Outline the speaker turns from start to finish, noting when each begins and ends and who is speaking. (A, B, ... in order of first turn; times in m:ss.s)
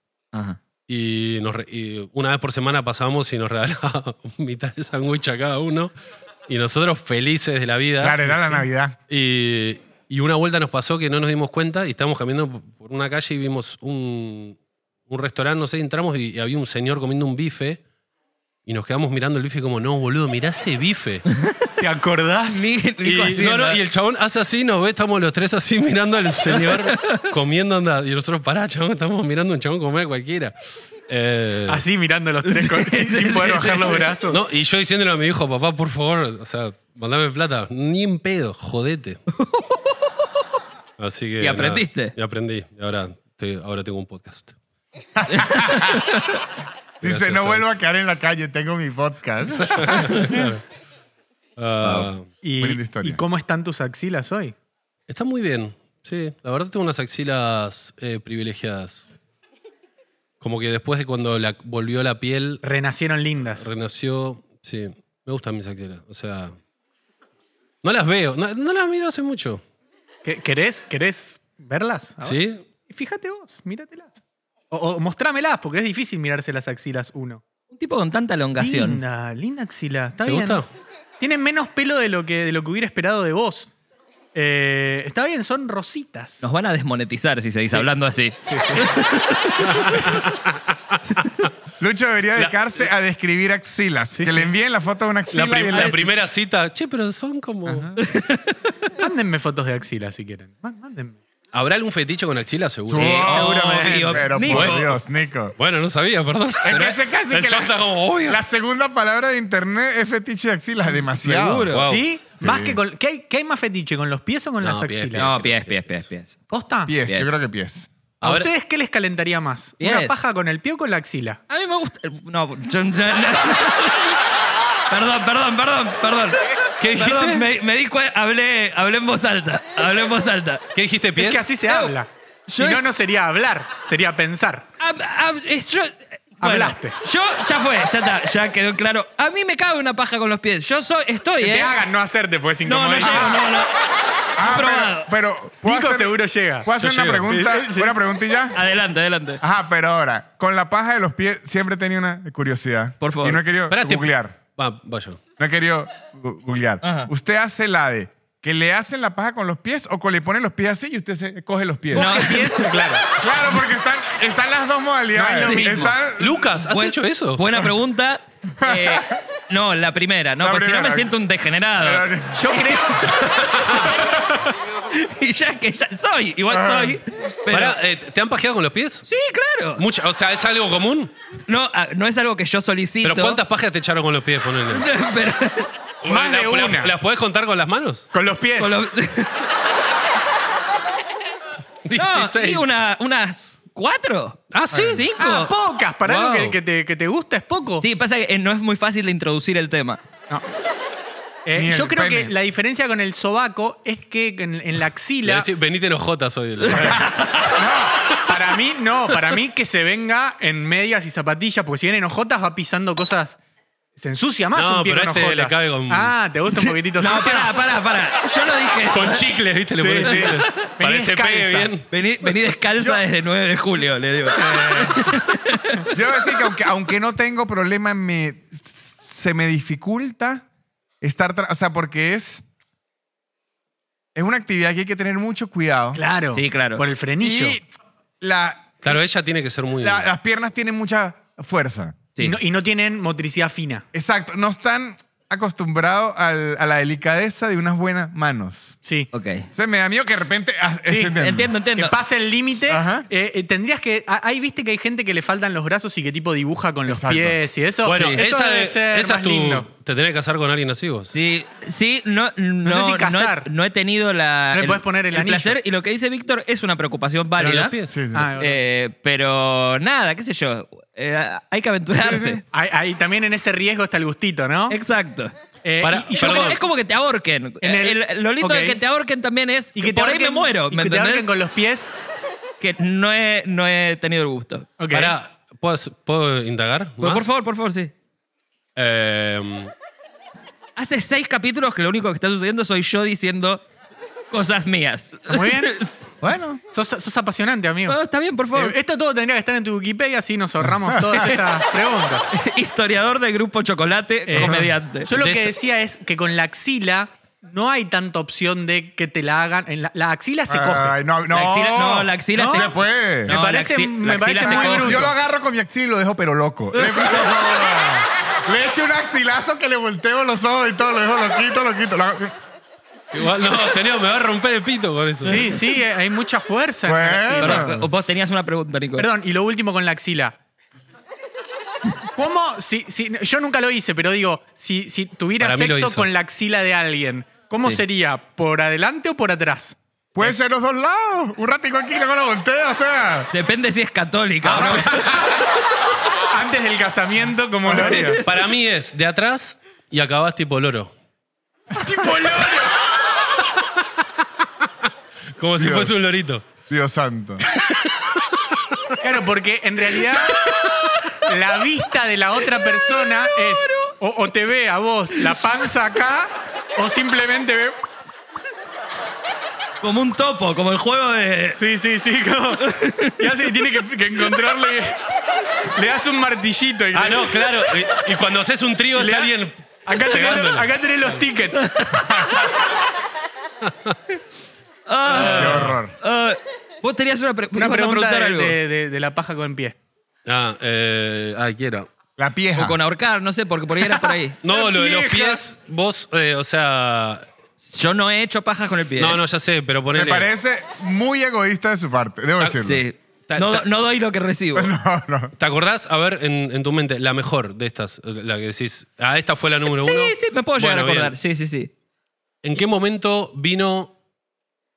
0:00.3-0:00.6 A
0:00.9-0:05.9 B
0:06.5-0:14.6 B
0:08.0-0:09.0 C
0:15.1-0:17.8 B
0:18.6-0:21.2 B
0:21.3-0:21.7 A
0:21.8-0:22.7 D
0:22.5-0:23.8 A
0:23.0-0:30.5 B
0:26.5-0:27.2 A
0:31.1-0:31.8 B
0:31.7-0:34.4 D
0:32.4-0:34.1 A
0:34.3-0:39.2 B
0:39.4-0:40.1 A
0:41.0-0:44.6 B
0:41.4-0:42.1 A
0:45.2-0:46.1 C
0:45.3-0:46.4 A
0:47.0-0:50.4 C
0:47.0-0:47.8 B
0:49.7-0:50.6 B
0:51.6-0:52.3 B
0:52.4-0:54.5 D
0:52.6-0:53.2 C
0:55.1-0:59.1 B
1:00.4-1:02.6 B
1:02.6-1:03.7 D
1:03.6-1:06.6 B
1:07.8-1:09.6 B
1:10.2-1:17.4 D
1:12.2-1:12.6 B
1:17.7-1:19.0 A
1:18.6-1:20.6 D
1:20.3-1:20.7 B
1:21.2-1:23.7 D
1:24.3-1:26.4 D
1:26.4-1:30.0 A
1:28.4-1:28.9 D
1:29.6-1:31.5 B
1:31.8-1:36.0 C
1:34.1-1:34.5 D
1:35.3-1:37.9 B
1:37.6-1:38.0 D
1:38.0-1:38.9 A
1:39.0-1:41.2 D
1:41.5-1:43.5 B
1:42.9-1:45.6 C
1:42.9-1:44.9 A
1:43.0-1:44.3 D
1:44.4-1:45.0 B
1:45.6-1:48.4 B
1:46.6-1:51.7 C
1:51.1-1:51.9 A
1:51.7-1:52.0 B
1:51.8-1:55.3 D
1:52.4-1:52.8 C
1:54.6-1:56.0 B
1:55.2-1:56.3 A
1:56.5-1:56.9 D
1:56.9-1:57.9 C
1:57.1-1:57.3 A
1:58.2-1:58.5 B
1:58.2-2:01.4 D
1:59.8-2:00.1 A
2:01.5-2:04.2 A
2:04.9-2:10.7 A
2:06.8-2:07.4 B
2:10.7-2:11.5 B
2:11.2-2:14.6 D
2:11.7-2:11.9 A
2:12.5-2:12.8 A
2:14.8-2:21.7 A
2:16.4-2:17.0 D
2:21.4-2:23.4 D
2:22.6-2:23.7 A
2:23.0-2:23.4 C
2:24.4-2:28.6 C
2:24.4-2:25.1 A
2:25.6-2:26.7 D
2:26.8-2:27.3 B
2:27.3-2:28.0 D
2:28.5-2:29.4 A
2:29.4-2:34.4 C
2:33.0-2:33.4 A
2:33.7-2:35.2 B
2:35.4-2:42.2 C
2:36.8-2:37.1 A
2:41.9-2:43.0 D
2:41.9-2:42.7 A
2:43.1-2:46.5 C
2:45.1-2:46.0 D
2:45.4-2:45.9 A
2:46.2-2:47.4 B
2:46.7-2:54.1 A
2:48.6-2:49.0 C
2:50.4-2:51.1 C
2:51.8-2:52.8 C
2:52.3-2:53.2 D
2:53.4-2:53.9 B
2:54.0-2:54.4 D
2:54.9-2:57.8 A
2:56.5-2:57.0 C
2:57.5-2:59.1 B
2:59.1-2:59.8 A
2:59.8-3:01.1 B
3:01.5-3:03.4 A
3:03.0-3:04.8 B
3:04.7-3:05.7 A
3:06.0-3:08.1 B
3:06.0-3:06.9 D
3:08.1-3:08.7 D
3:08.6-3:09.4 A
3:11.8-3:12.7 B
3:11.9-3:15.5 A
3:14.5-3:15.0 B
3:15.2-3:17.8 D
3:16.0-3:16.6 B
3:17.8-3:20.0 A
3:21.4-3:25.5 D
3:21.5-3:22.3 C
3:25.2-3:27.1 B
3:26.7-3:27.6 A
3:27.5-3:33.4 D
3:34.0-3:37.5 D
3:34.5-3:36.1 B
3:36.5-3:39.3 A
3:38.9-3:41.9 B
3:39.8-3:41.7 D
3:40.0-3:40.5 A
3:41.9-3:45.9 A
3:44.3-3:45.0 D
3:45.9-3:50.4 C
3:51.0-3:52.4 C
3:54.1-3:56.0 C
3:55.9-3:57.6 D
3:56.3-3:56.8 A
3:57.2-3:57.6 C
3:58.2-3:59.0 C
3:58.8-4:00.1 B
3:59.8-4:02.0 C
4:02.2-4:03.8 D
4:03.9-4:08.8 C
4:08.8-4:09.1 D
4:09.1-4:09.4 A
4:09.5-4:11.5 C
4:10.8-4:11.1 D
4:11.2-4:11.9 A
4:11.8-4:19.7 D
4:12.7-4:13.1 C
4:16.8-4:17.4 C
4:17.8-4:21.2 B
4:17.9-4:18.2 A
4:21.1-4:27.7 A
4:22.6-4:23.5 D
4:24.5-4:25.6 D
4:27.4-4:28.0 B
4:27.9-4:28.3 C
4:28.1-4:28.6 D
4:28.4-4:32.4 A
4:32.0-4:32.4 C
4:32.5-4:34.8 D
4:34.7-4:35.3 A
4:35.6-4:36.6 D
4:35.8-4:36.6 B
4:36.2-4:41.3 A
4:37.6-4:38.8 D
4:39.7-4:41.9 D
4:42.6-4:44.7 A
4:44.8-4:45.1 D
4:44.9-4:47.3 B
4:47.0-4:47.9 A
4:48.8-4:49.7 B
4:50.8-4:53.6 A
4:54.3-4:56.1 A
4:55.3-4:55.8 D
4:56.2-4:56.6 C
4:56.7-4:58.0 D
4:57.9-4:58.8 A
4:58.5-5:02.2 D
5:00.9-5:01.2 C
5:02.3-5:05.1 A
5:04.3-5:11.0 D
5:04.4-5:04.7 C
5:05.1-5:05.5 B
5:10.5-5:13.3 C
5:11.3-5:15.1 A
5:12.3-5:12.7 D
5:13.2-5:15.1 D
5:14.4-5:22.3 C
5:16.8-5:17.2 A
5:23.1-5:25.5 B
5:25.2-5:27.8 D
5:26.8-5:27.9 C
5:27.4-5:29.1 A
5:29.0-5:30.4 D
5:32.1-5:39.8 D
5:35.4-5:36.1 B
5:40.1-5:43.3 C
5:43.3-5:45.2 A
5:44.4-5:44.9 B
5:46.3-5:48.2 D
5:47.7-5:48.1 C
5:47.7-5:48.4 A
5:48.2-5:50.9 B
5:51.7-5:52.8 D
5:55.4-5:56.5 B
5:55.6-5:56.0 C
5:56.7-5:57.4 C
5:59.0-6:00.4 D
6:01.2-6:07.8 D
6:02.9-6:03.9 A
6:09.8-6:11.6 A
6:11.5-6:15.0 D
6:12.6-6:13.4 A
6:15.6-6:17.6 D
6:16.9-6:20.7 B
6:18.9-6:19.3 D
6:19.8-6:21.7 D
6:21.6-6:22.5 A
6:22.0-6:22.3 C
6:23.6-6:24.0 B
6:24.9-6:28.6 A
6:25.1-6:25.7 D
6:25.2-6:25.9 C
6:25.2-6:25.7 B
6:27.5-6:29.7 D
6:30.2-6:31.9 B
6:32.2-6:32.8 C
6:32.6-6:34.4 A
6:33.8-6:35.4 D
6:34.4-6:37.3 B
6:37.6-6:39.2 A
6:39.0-6:40.3 B
6:39.9-6:42.8 C
6:42.4-6:44.7 A
6:43.3-6:43.6 B
6:44.5-6:45.3 C
6:45.4-6:51.1 B
6:49.6-6:51.7 A
6:52.4-6:53.9 B